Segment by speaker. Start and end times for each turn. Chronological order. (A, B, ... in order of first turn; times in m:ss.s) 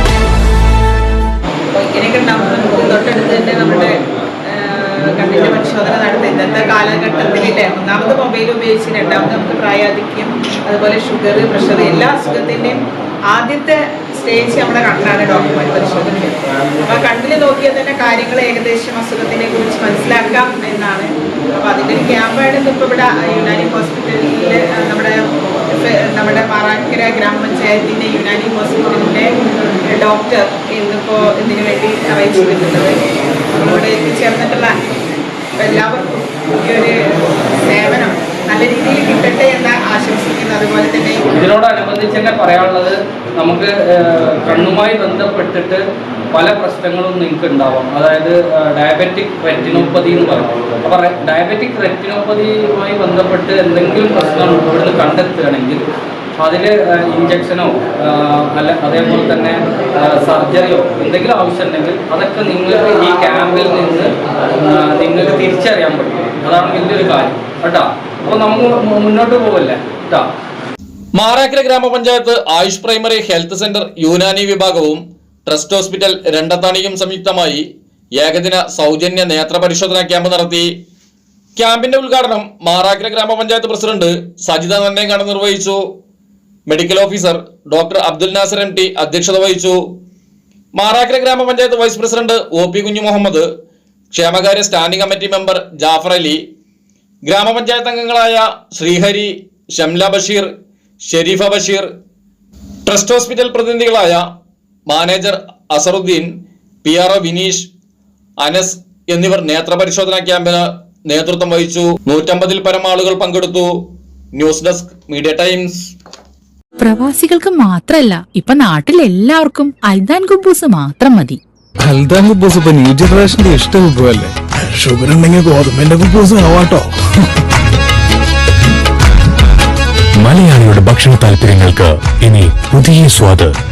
0:01.7-0:04.0 A
0:04.5-0:25.2 A
0:25.7-0:29.3 A
0:29.8-0:33.0 A
0:33.5-0:34.8 A
0:35.6-0:37.0 A
0:37.5-0:41.2 A
0:41.3-0:55.8 B
0:56.4-1:10.3 B
1:11.1-1:17.6 C
1:18.2-1:20.7 C
1:21.6-1:25.8 C
1:26.7-1:29.8 C
1:30.7-1:33.5 C
1:34.1-1:36.4 C
1:37.2-1:40.5 C
1:41.1-1:41.9 C
1:42.8-1:44.2 C
1:44.9-1:46.3 C
1:46.8-1:47.7 C
1:48.4-1:53.7 C
1:54.3-1:55.9 C
1:56.8-2:01.4 D
2:01.8-2:06.9 E
2:10.2-2:13.5 F